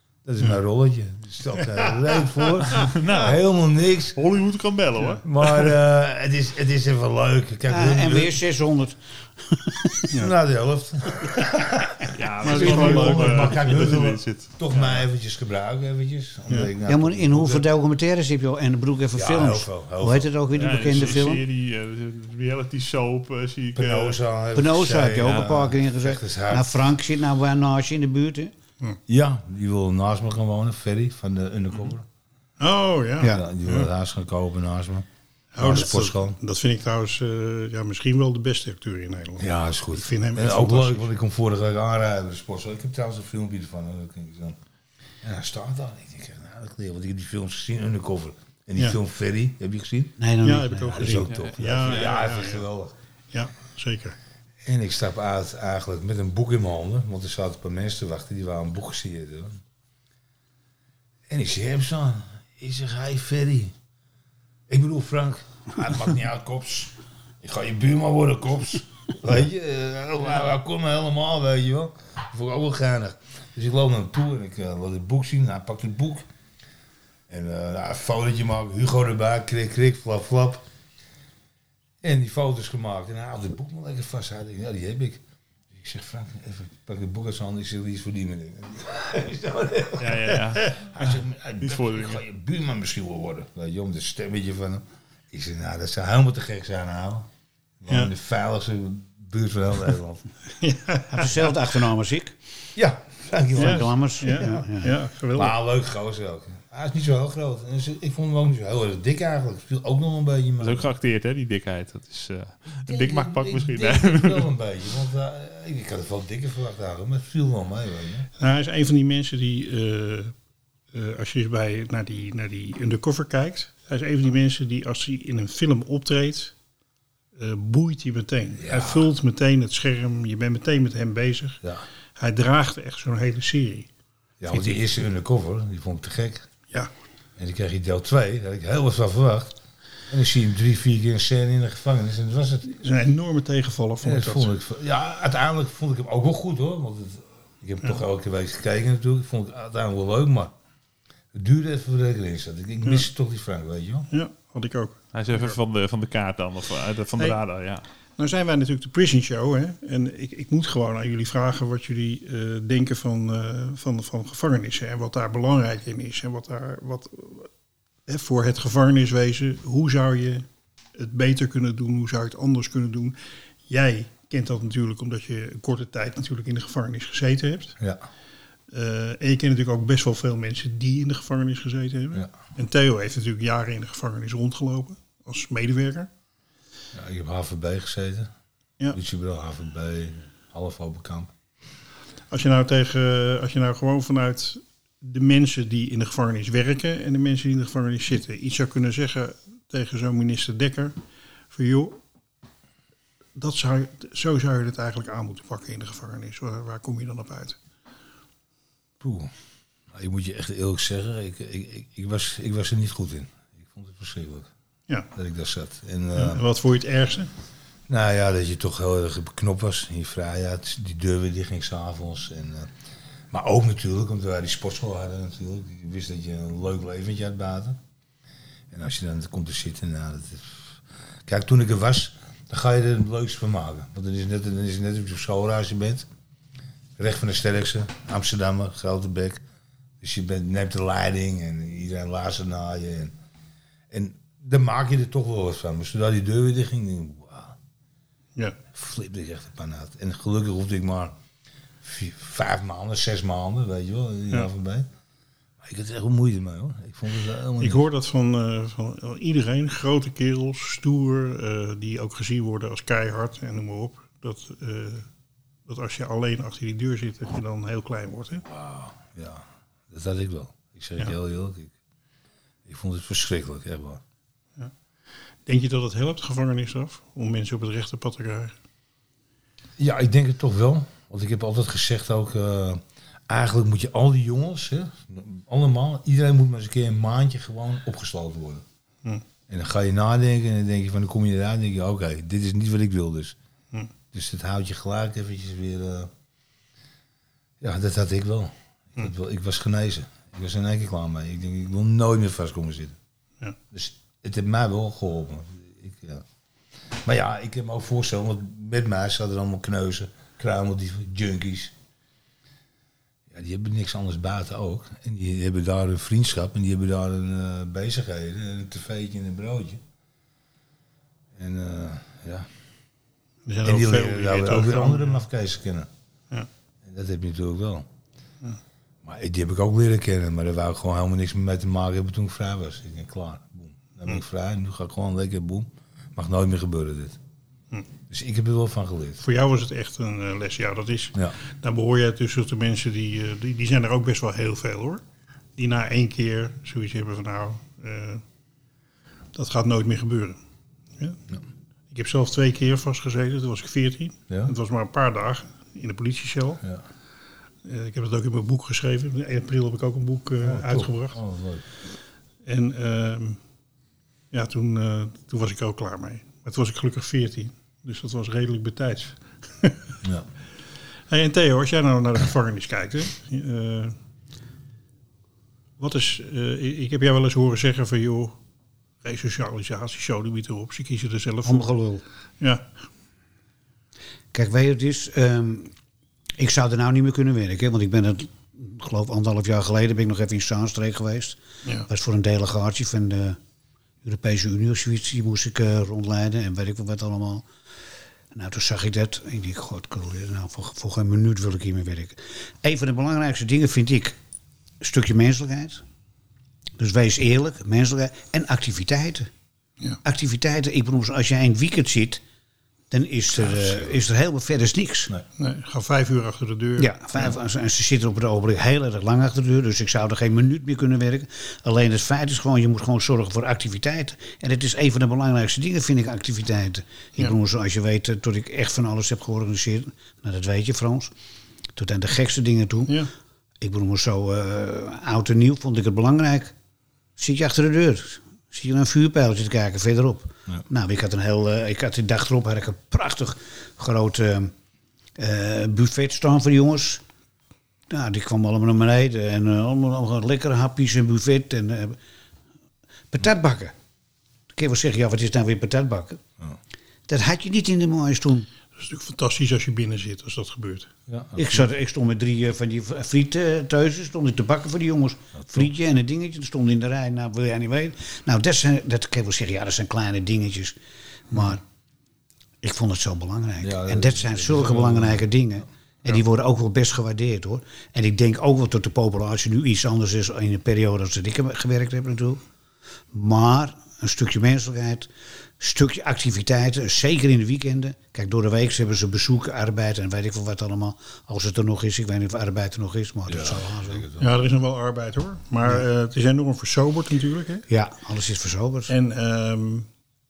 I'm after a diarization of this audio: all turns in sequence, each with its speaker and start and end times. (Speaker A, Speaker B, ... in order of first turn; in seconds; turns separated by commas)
Speaker A: 0.2-4.2, Speaker B: 2.7-3.4, Speaker B: 4.2-5.7, Speaker A: 5.2-8.4, Speaker C: 7.7-10.1, Speaker A: 10.1-17.7, Speaker B: 12.1-15.0, Speaker D: 12.4-13.9, Speaker C: 16.8-21.4, Speaker A: 19.1-21.2, Speaker B: 20.5-24.2, Speaker A: 23.7-26.9, Speaker C: 24.5-28.5, Speaker B: 25.2-25.5, Speaker A: 29.1-32.0, Speaker D: 32.6-33.9, Speaker A: 33.2-36.4, Speaker D: 35.5-41.1, Speaker A: 39.4-44.6, Speaker A: 45.2-50.2, Speaker C: 50.2-51.3, Speaker D: 50.4-52.6, Speaker A: 50.9-52.9, Speaker D: 53.3-54.2, Speaker A: 54.6-59.6, Speaker A: 61.3-63.7, Speaker A: 64.7-76.3, Speaker A: 77.3-80.6, Speaker A: 82.0-97.3, Speaker B: 90.0-91.0, Speaker D: 90.3-91.1, Speaker B: 91.6-92.2, Speaker A: 97.8-100.3, Speaker D: 100.6-101.5, Speaker C: 101.1-102.3, Speaker A: 102.7-104.6, Speaker C: 103.5-104.9, Speaker D: 103.5-105.5, Speaker A: 105.3-110.9, Speaker B: 110.6-114.5, Speaker A: 112.9-118.3, Speaker D: 118.4-120.3, Speaker D: 120.9-126.5, Speaker D: 127.3-131.6, Speaker A: 128.6-129.1, Speaker D: 132.2-133.9, Speaker A: 134.4-136.5, Speaker A: 137.4-139.6, Speaker A: 140.1-142.7, Speaker D: 142.6-144.5, Speaker A: 144.0-150.5, Speaker A: 151.3-154.1, Speaker D: 154.1-155.6, Speaker B: 155.1-157.8, Speaker D: 158.2-167.5, Speaker D: 168.1-177.8, Speaker D: 178.7-186.1, Speaker A: 186.9-188.3, Speaker A: 188.9-191.3, Speaker D: 192.3-200.9, Speaker D: 201.5-202.0, Speaker D: 203.3-207.6, Speaker A: 209.0-209.3, Speaker A: 209.9-214.5, Speaker A: 215.1-216.4, Speaker D: 216.1-217.3, Speaker A: 217.9-222.7, Speaker A: 223.3-227.8, Speaker A: 228.7-236.1, Speaker A: 237.0-239.4, Speaker A: 240.0-243.1, Speaker A: 243.9-247.6, Speaker A: 248.7-251.1, Speaker A: 251.8-254.9, Speaker A: 255.6-257.8, Speaker D: 257.6-265.1, Speaker D: 265.6-268.4, Speaker A: 268.4-271.7, Speaker A: 272.6-274.0, Speaker D: 275.4-278.5, Speaker A: 279.8-288.6, Speaker A: 289.5-293.3, Speaker A: 294.1-296.1, Speaker A: 297.6-302.9, Speaker A: 303.7-306.2, Speaker A: 307.0-311.7, Speaker A: 313.3-319.8, Speaker A: 321.3-322.5, Speaker D: 323.4-325.2, Speaker A: 323.6-325.9, Speaker A: 326.8-327.9, Speaker A: 329.0-337.2, Speaker A: 338.1-339.2, Speaker D: 339.2-345.0, Speaker D: 345.6-348.2, Speaker D: 349.3-350.4, Speaker D: 351.9-356.6, Speaker A: 354.3-354.5, Speaker D: 357.6-361.2, Speaker A: 360.4-361.7, Speaker D: 362.4-363.4, Speaker D: 364.3-369.9, Speaker A: 370.0-370.3, Speaker D: 371.1-373.9, Speaker D: 375.8-378.4, Speaker D: 379.0-381.7, Speaker C: 381.4-382.0, Speaker D: 382.4-382.7, Speaker C: 384.3-385.7, Speaker C: 386.4-393.4, Speaker C: 394.0-397.5, Speaker C: 398.3-404.1, Speaker C: 404.8-405.8, Speaker C: 406.8-409.3, Speaker C: 410.0-412.2, Speaker C: 412.9-415.1, Speaker A: 413.4-413.9, Speaker D: 415.4-417.3, Speaker C: 416.8-431.1, Speaker C: 431.8-433.1, Speaker C: 433.6-436.5, Speaker C: 437.2-444.5, Speaker C: 445.2-447.0, Speaker C: 447.9-452.0, Speaker C: 453.1-453.7, Speaker C: 454.5-456.2, Speaker C: 457.1-458.5, Speaker D: 458.8-460.9, Speaker A: 461.1-461.6, Speaker C: 461.3-470.8, Speaker C: 471.3-471.6, Speaker C: 472.6-482.4, Speaker A: 473.6-475.3, Speaker C: 483.1-494.1, Speaker A: 493.3-494.4, Speaker D: 494.2-497.6, Speaker C: 497.7-498.9, Speaker D: 498.9-499.9